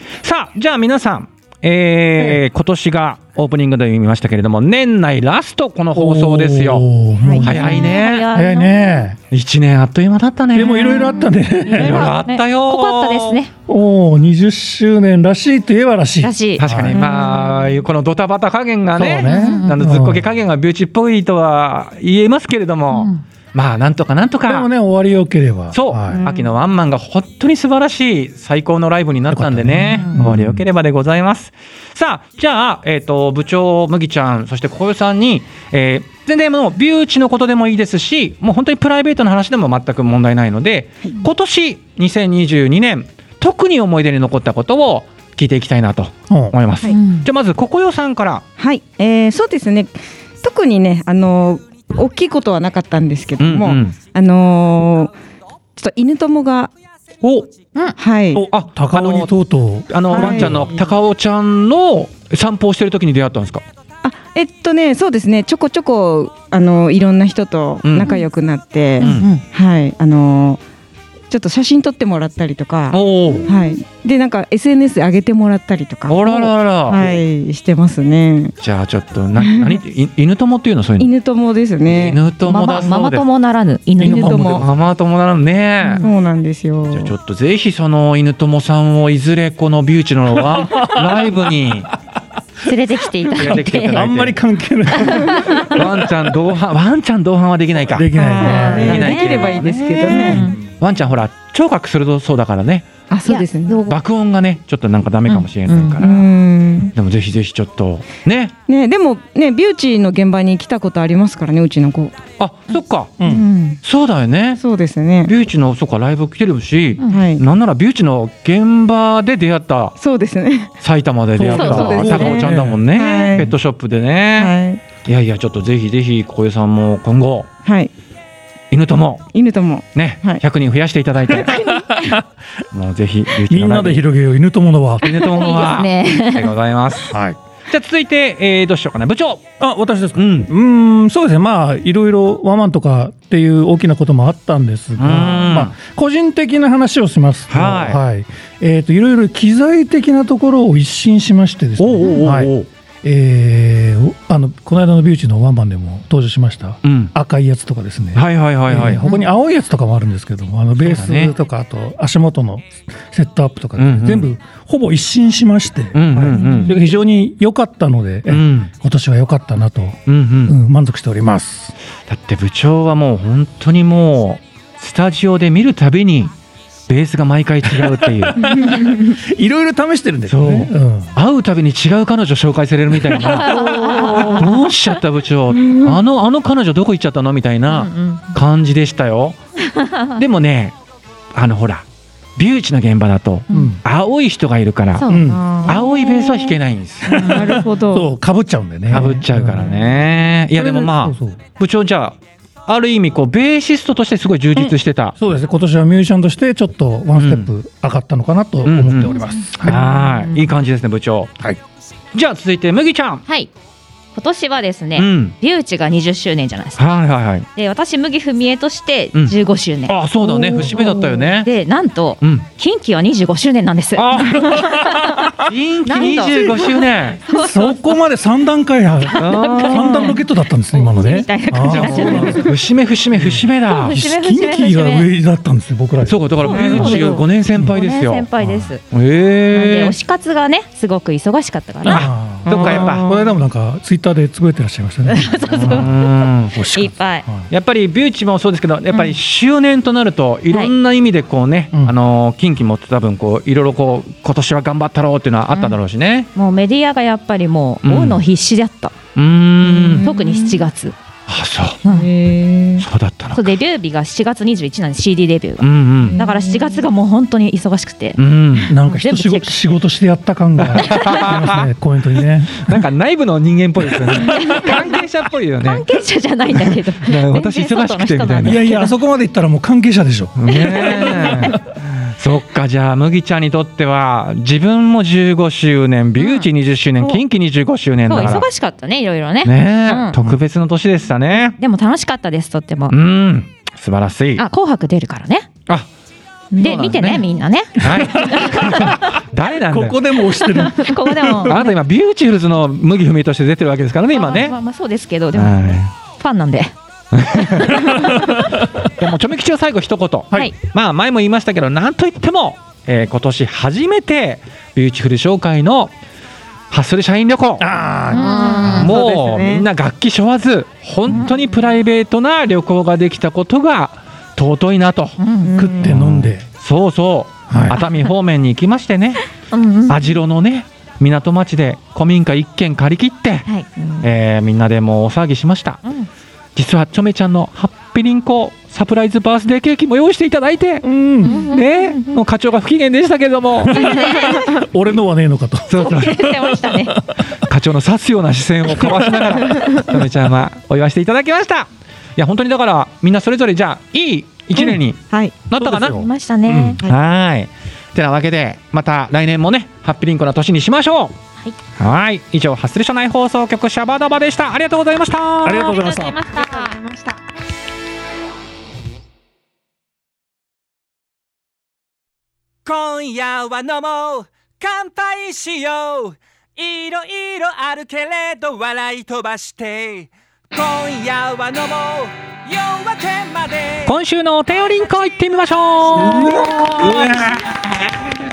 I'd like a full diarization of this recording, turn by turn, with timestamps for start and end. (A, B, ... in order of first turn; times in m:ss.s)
0:00.2-0:06.9 A
0:06.0-0:09.2 B
0:07.2-0:07.5 C
0:07.4-0:08.3 A
0:07.4-0:09.1 D
0:09.3-0:13.4 A
0:10.5-0:12.2 B
0:10.8-0:13.5 D
0:13.7-0:17.0 B
0:16.2-0:16.6 D
0:16.6-0:24.7 A
0:17.0-0:17.4 C
0:19.0-0:20.3 B
0:19.2-0:19.7 D
0:22.9-0:23.2 D
0:24.5-0:26.2 B
0:25.7-0:48.4 A
0:29.3-0:30.6 B
0:46.3-0:46.6 B
0:46.9-0:47.3 D
0:48.6-0:55.1 C
0:53.4-0:54.0 A
0:55.8-0:56.7 C
0:57.2-0:57.5 A
0:58.0-0:58.4 C
0:58.3-1:00.7 B
0:58.5-0:59.3 A
0:59.9-1:03.6 A
1:00.1-1:00.8 C
1:04.0-1:10.6 C
1:07.8-1:08.2 A
1:09.0-1:09.3 A
1:09.0-1:09.4 D
1:11.3-1:18.5 C
1:12.9-1:13.5 A
1:16.1-1:17.2 A
1:18.6-1:21.1 A
1:19.4-1:19.8 C
1:21.0-1:22.2 C
1:21.9-1:23.2 A
1:22.4-1:24.6 D
1:24.0-1:24.7 B
1:24.0-1:24.7 C
1:24.5-1:26.1 A
1:25.8-1:26.1 D
1:26.0-1:27.1 C
1:26.9-1:31.9 A
1:30.4-1:31.3 B
1:32.6-1:34.0 D
1:33.3-1:34.4 A
1:33.8-1:35.8 B
1:35.0-1:42.9 A
1:35.0-1:35.6 D
1:37.9-1:39.1 B
1:38.2-1:40.5 C
1:38.4-1:39.5 D
1:40.1-1:40.6 D
1:40.3-1:40.6 B
1:43.1-1:43.8 C
1:43.3-1:43.9 D
1:43.9-1:46.3 A
1:45.3-1:46.0 D
1:46.0-1:46.9 C
1:46.9-1:48.5 A
1:48.7-1:52.2 C
1:52.4-1:53.2 A
1:53.2-1:53.5 B
1:53.2-1:53.8 C
1:53.8-1:54.6 A
1:54.6-1:55.3 C
1:55.2-2:00.0 A
1:57.1-1:57.4 C
2:00.0-2:00.7 C
2:00.8-2:04.5 A
2:01.4-2:02.8 B
2:01.5-2:03.5 C
2:01.5-2:02.4 D
2:04.4-2:04.8 C
2:05.0-2:07.5 A
2:07.6-2:07.9 C
2:08.7-2:09.3 A
2:09.3-2:10.4 C
2:10.0-2:11.7 A
2:11.5-2:12.2 B
2:12.7-2:14.0 A
2:13.4-2:15.5 B
2:15.0-2:19.4 A
2:15.4-2:16.5 D
2:17.1-2:17.4 B
2:19.6-2:51.7 B
2:20.2-2:20.5 A
2:25.0-2:25.7 A
2:27.5-2:28.0 A
2:31.8-2:32.7 A
2:36.8-2:37.1 A
2:38.2-2:39.0 A
2:40.8-2:41.3 A
2:43.8-2:44.3 A
2:45.9-2:46.8 A
2:46.4-2:46.7 D
2:48.3-2:48.7 A
2:50.1-2:50.6 A
2:52.1-2:56.3 A
2:56.9-2:58.7 A
2:57.7-3:01.2 B
3:00.3-3:09.4 A
3:03.1-3:04.4 B
3:03.3-3:04.5 D
3:07.7-3:08.2 D
3:09.7-3:10.1 D
3:10.1-3:10.8 A
3:11.3-3:11.8 A
3:12.4-3:15.1 A
3:13.5-3:13.8 B
3:15.0-3:16.6 D
3:15.1-3:15.4 B
3:15.2-3:15.8 C
3:15.6-3:17.6 A
3:17.1-3:20.0 B
3:17.1-3:18.1 C
3:18.9-3:25.2 A
3:20.6-3:21.4 B
3:25.2-3:29.9 B
3:27.2-3:27.5 A
3:28.6-3:31.4 A
3:29.7-3:30.2 D
3:32.1-3:33.2 A
3:34.2-3:36.8 D
3:35.0-3:35.3 A
3:36.8-3:37.5 A
3:37.6-3:40.0 D
3:39.9-3:41.5 A
3:40.6-3:40.9 D
3:41.4-3:45.3 D
3:42.2-3:42.5 A
3:44.0-3:44.7 A
3:44.4-3:45.3 B
3:45.4-3:47.2 A
3:45.9-3:47.8 D
3:47.3-3:52.6 B
3:49.1-3:52.5 D
3:49.2-3:50.2 A
3:51.6-3:54.0 A
3:53.1-3:57.7 B
3:53.7-3:55.1 D
3:56.0-3:58.3 A
3:56.5-3:58.8 D
3:56.6-3:57.0 C
3:58.4-3:58.7 B
3:58.9-4:00.0 A
3:59.5-4:02.1 D
4:01.8-4:03.1 A
4:01.9-4:07.5 B
4:02.5-4:03.3 C
4:05.1-4:05.9 D
4:05.6-4:06.6 A
4:06.7-4:07.3 D
4:07.5-4:16.3 A
4:16.4-4:19.0 D
4:17.8-4:18.2 A
4:19.2-4:20.1 A
4:19.7-4:20.6 C
4:19.8-4:21.0 D
4:21.3-4:21.8 A
4:21.9-4:22.9 C
4:22.8-4:23.5 A
4:23.3-4:28.2 D
4:25.6-4:26.2 A
4:26.1-4:26.8 C
4:28.2-4:28.7 A
4:28.7-4:32.8 B
4:28.8-4:29.7 D
4:30.6-4:31.7 A
4:32.5-4:35.8 A
4:34.1-4:34.6 B
4:34.4-4:34.8 D
4:35.6-4:38.9 D
4:37.0-4:38.6 A
4:38.4-4:41.6 B
4:40.4-4:48.5 A
4:40.7-4:41.6 D
4:46.2-4:46.5 D
4:48.1-4:50.2 D
4:49.4-4:51.6 A
4:51.6-4:53.0 D
4:52.9-4:54.4 A
4:54.4-4:55.5 D
4:56.6-4:58.9 D
4:56.6-4:57.2 A
4:57.8-5:00.0 A
4:57.9-4:59.0 B
4:59.7-5:01.6 B
5:00.5-5:01.7 D
5:01.4-5:04.6 A
5:04.1-5:06.7 D
5:05.3-5:05.9 A
5:07.1-5:08.0 A
5:07.4-5:08.4 D
5:08.0-5:08.8 B
5:09.0-5:15.9 A
5:16.7-5:17.7 A
5:17.6-5:18.8 B
5:18.1-5:18.9 D
5:18.3-5:19.7 C
5:18.6-5:25.2 A
5:25.2-5:25.5 D
5:25.4-5:25.9 C
5:25.6-5:26.4 B
5:25.8-5:29.2 A
5:27.5-5:27.8 B
5:29.5-5:30.0 D
5:29.9-5:33.5 A
5:34.0-5:35.8 A
5:36.6-5:44.1 A
5:40.8-5:41.5 B
5:41.2-5:42.0 D
5:43.7-5:44.6 D
5:43.7-5:47.3 B
5:45.7-5:46.1 A
5:45.8-5:47.0 D
5:47.3-5:56.0 A
5:48.7-5:49.7 B
5:55.1-5:55.4 C
5:55.6-5:56.8 B
5:55.7-5:56.8 D
5:56.9-6:01.2 A
6:01.8-6:05.8 A
6:05.4-6:06.3 B
6:05.5-6:07.2 D
6:12.6-6:24.0 E
6:23.9-6:27.6 A
6:24.6-6:26.0 E
6:26.0-6:27.1 B
6:26.7-6:27.4 E